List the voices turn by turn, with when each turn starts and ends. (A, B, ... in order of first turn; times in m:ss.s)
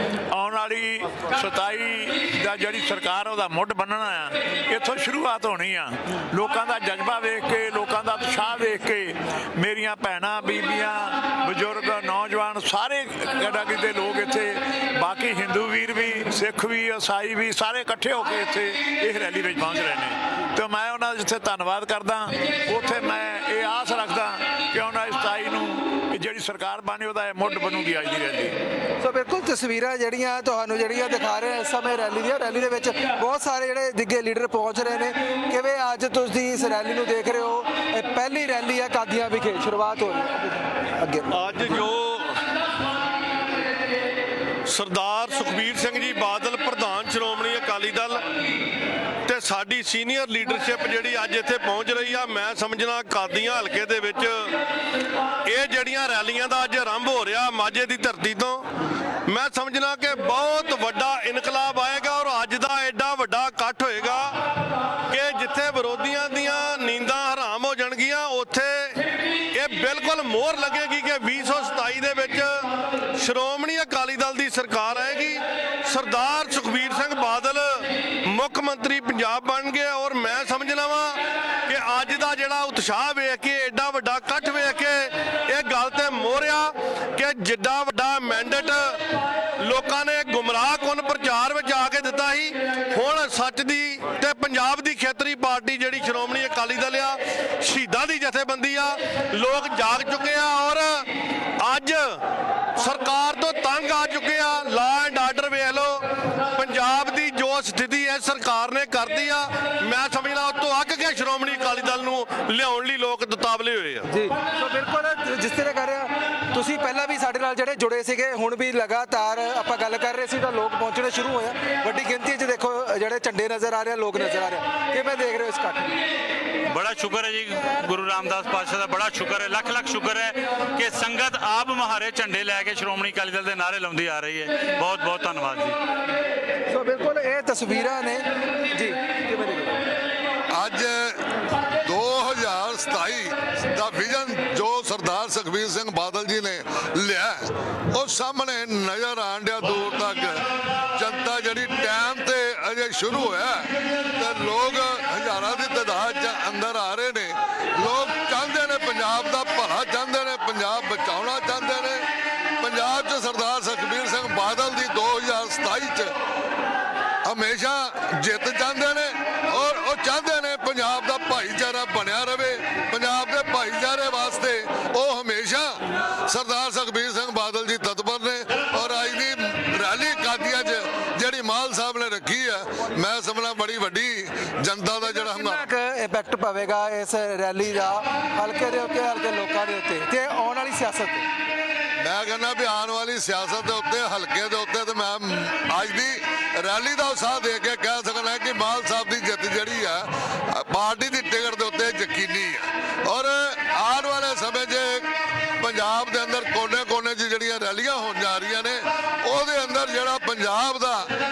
0:00.3-0:28.6 A
0:29.0-0:41.3 B
0:41.3-0:42.4 C
0:44.7-0:48.2 C
0:49.2-0:54.5 C
0:55.4-0:58.7 C
0:59.3-1:04.4 C
1:05.1-1:09.0 C
1:09.5-1:12.5 C
1:13.2-1:29.0 C
1:29.6-1:41.1 C
1:41.6-1:42.2 C
1:42.8-1:54.1 C
1:54.1-2:06.0 B
2:06.7-2:15.8 D
2:16.7-2:19.8 B
2:20.5-2:21.2 E
2:21.8-2:30.4 E
2:31.0-2:42.0 E
2:42.6-2:46.1 E
2:47.3-3:05.7 E
3:05.1-3:11.2 B
3:12.0-3:25.1 E
3:25.6-3:31.1 E